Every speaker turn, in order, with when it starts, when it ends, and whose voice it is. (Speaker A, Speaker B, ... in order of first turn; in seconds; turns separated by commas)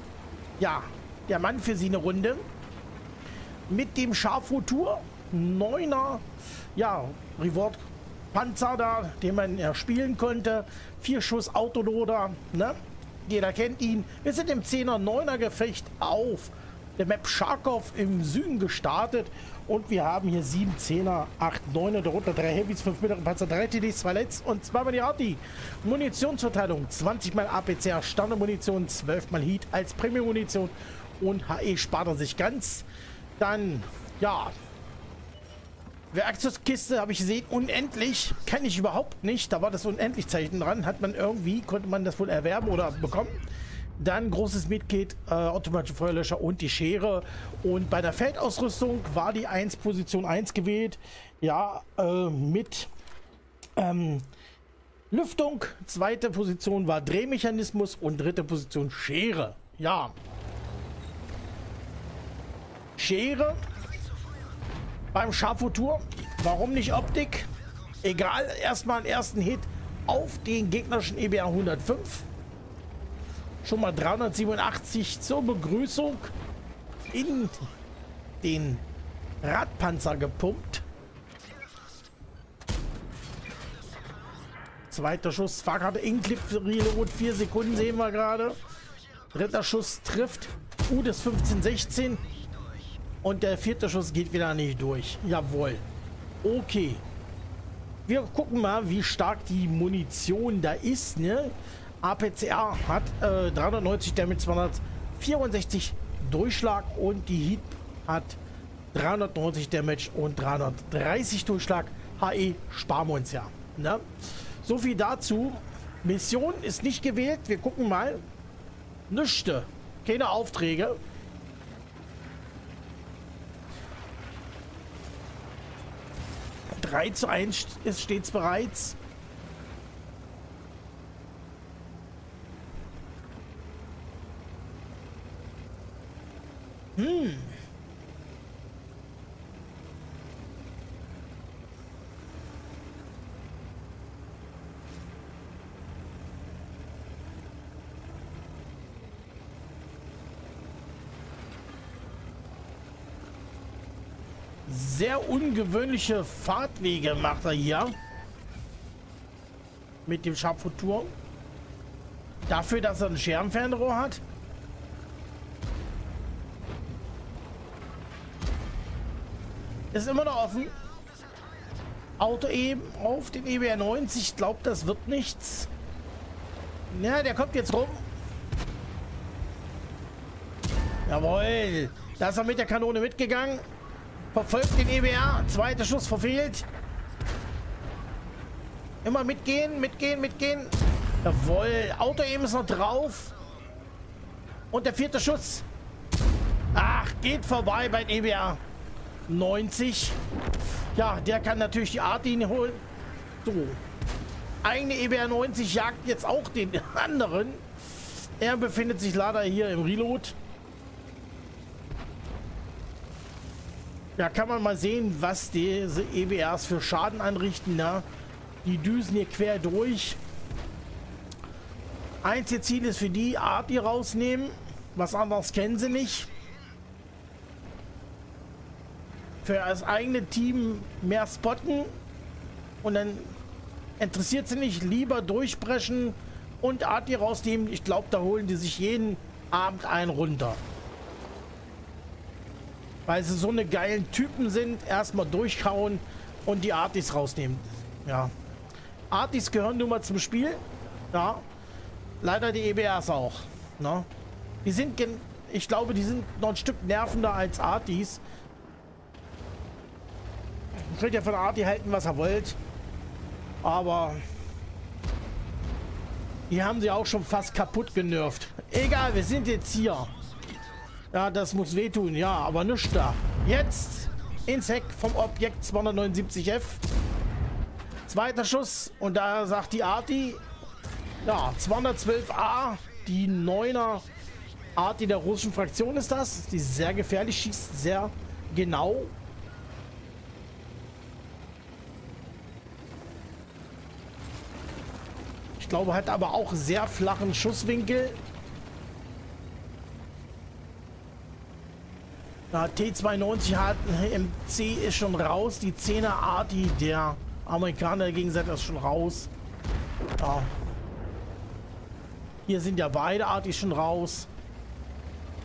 Speaker A: 0.6-2.4, Speaker A: 3.7-6.2, Speaker A: 6.7-32.9, Speaker A: 33.4-34.5, Speaker A: 36.1-43.4, Speaker A: 44.0-52.9, Speaker A: 53.8-54.3, Speaker A: 55.1-60.1, Speaker A: 63.0-63.6, Speaker A: 65.1-67.5, Speaker A: 68.0-72.3, Speaker A: 73.6-76.3, Speaker A: 77.1-77.7, Speaker A: 78.4-78.8, Speaker A: 79.4-80.8, Speaker A: 84.9-88.6, Speaker A: 89.3-92.2, Speaker A: 93.2-95.8, Speaker A: 96.4-97.0, Speaker A: 98.0-108.4, Speaker A: 108.9-118.2, Speaker A: 119.1-121.0, Speaker A: 126.8-129.0, Speaker A: 137.0-137.6, Speaker A: 154.7-157.9, Speaker A: 160.0-161.1, Speaker A: 162.4-164.2, Speaker A: 169.9-170.8, Speaker A: 172.2-175.7, Speaker A: 176.9-178.0, Speaker A: 181.1-183.6, Speaker A: 184.3-186.7, Speaker A: 189.0-193.3, Speaker A: 194.7-195.7, Speaker A: 196.7-198.6, Speaker A: 199.3-200.2, Speaker A: 200.9-202.8, Speaker A: 203.4-203.8, Speaker A: 204.6-210.3, Speaker A: 214.2-218.1, Speaker A: 218.6-220.2, Speaker A: 222.2-226.3, Speaker A: 229.4-232.0, Speaker A: 232.8-233.4, Speaker A: 234.0-240.6, Speaker A: 243.1-248.3, Speaker A: 249.1-250.6, Speaker A: 251.1-251.4, Speaker A: 252.2-254.1, Speaker A: 254.6-258.2, Speaker A: 260.7-262.6, Speaker A: 263.6-264.2, Speaker A: 266.5-270.1, Speaker A: 271.1-276.8, Speaker A: 278.1-280.4, Speaker A: 281.2-284.1, Speaker A: 284.8-289.1, Speaker A: 295.6-298.2, Speaker A: 302.5-309.3, Speaker A: 310.2-310.5, Speaker A: 312.4-314.3